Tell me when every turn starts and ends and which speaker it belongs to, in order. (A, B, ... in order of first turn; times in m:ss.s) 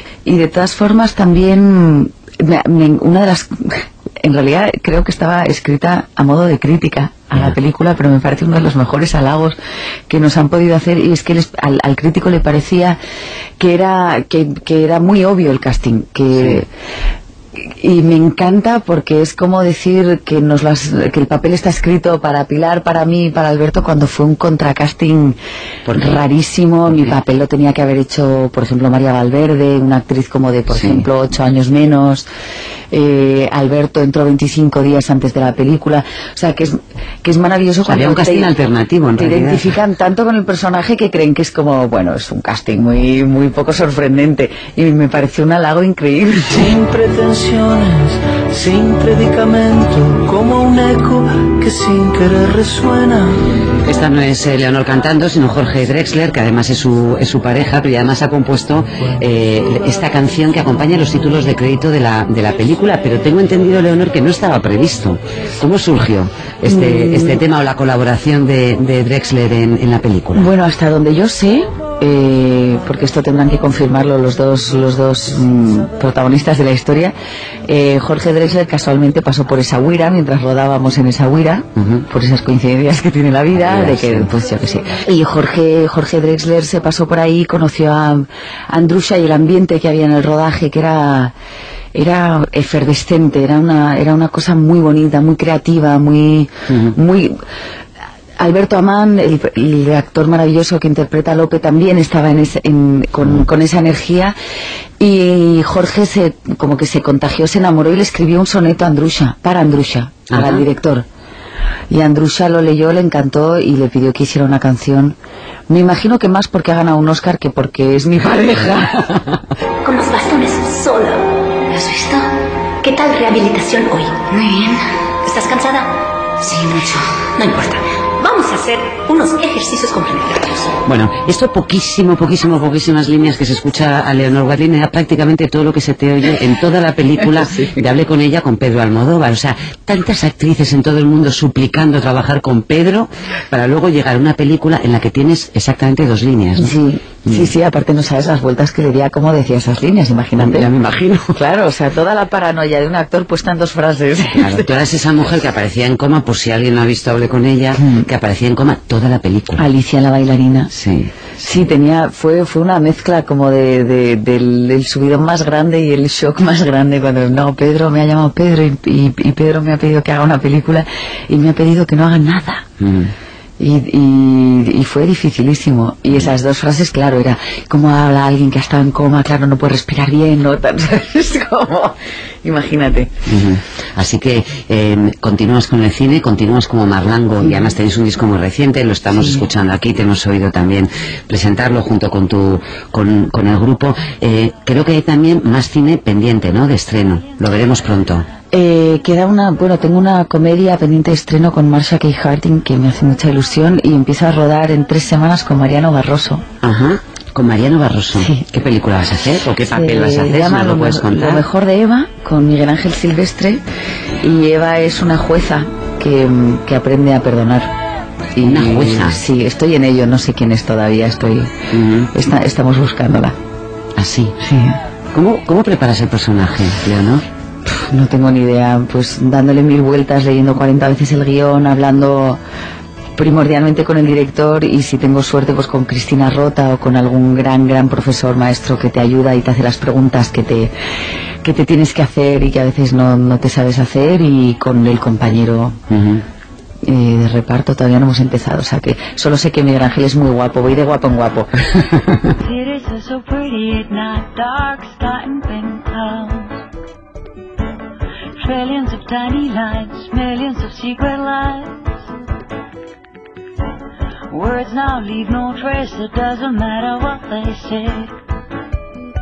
0:00.2-0:09.6 A
0:10.1-0:13.0 A
0:13.6-0:16.7 A
0:17.6-0:25.4 A
0:25.9-0:26.2 B
0:26.0-0:32.3 A
0:30.7-0:31.0 B
0:32.9-0:38.5 A
0:37.8-0:39.6 B
0:39.2-0:46.6 A
0:46.5-0:53.4 C
0:53.8-1:10.5 B
1:06.7-1:07.4 A
1:10.4-1:17.1 A
1:17.7-1:31.3 A
1:21.8-1:22.0 B
1:23.6-1:24.3 B
1:31.9-1:37.4 A
1:36.7-1:37.0 B
1:38.4-1:44.4 A
1:45.0-1:51.1 A
1:50.3-1:50.6 B
1:51.9-1:55.2 A
1:55.7-1:59.0 A
1:59.8-2:02.3 D
2:02.8-2:10.7 D
2:10.8-2:26.7 B
2:26.6-2:30.7 A
2:30.4-2:31.3 B
2:31.4-2:34.7 A
2:34.4-2:39.6 B
2:37.8-2:38.1 A
2:39.6-2:40.7 A
2:40.7-2:41.1 B
2:41.4-2:52.6 A
2:52.8-2:53.1 B
2:53.6-3:03.1 A
3:03.3-3:18.3 B
3:07.4-3:07.7 A
3:09.2-3:09.4 A
3:18.5-3:26.4 A
3:26.6-3:31.4 B
3:28.2-3:28.5 A
3:29.7-3:33.6 A
3:34.2-3:37.7 A
3:38.4-3:41.5 A
3:38.4-3:39.2 B
3:41.7-3:42.1 B
3:42.1-3:43.4 A
3:44.0-3:44.4 B
3:44.4-3:44.8 A
3:45.1-3:47.2 B
3:47.7-3:52.4 A
3:53.2-4:00.7 A
4:01.4-4:05.8 A
4:05.9-4:06.2 B
4:06.8-4:11.7 A
4:12.4-4:16.6 E
4:18.4-4:21.8 E
4:24.3-4:28.1 E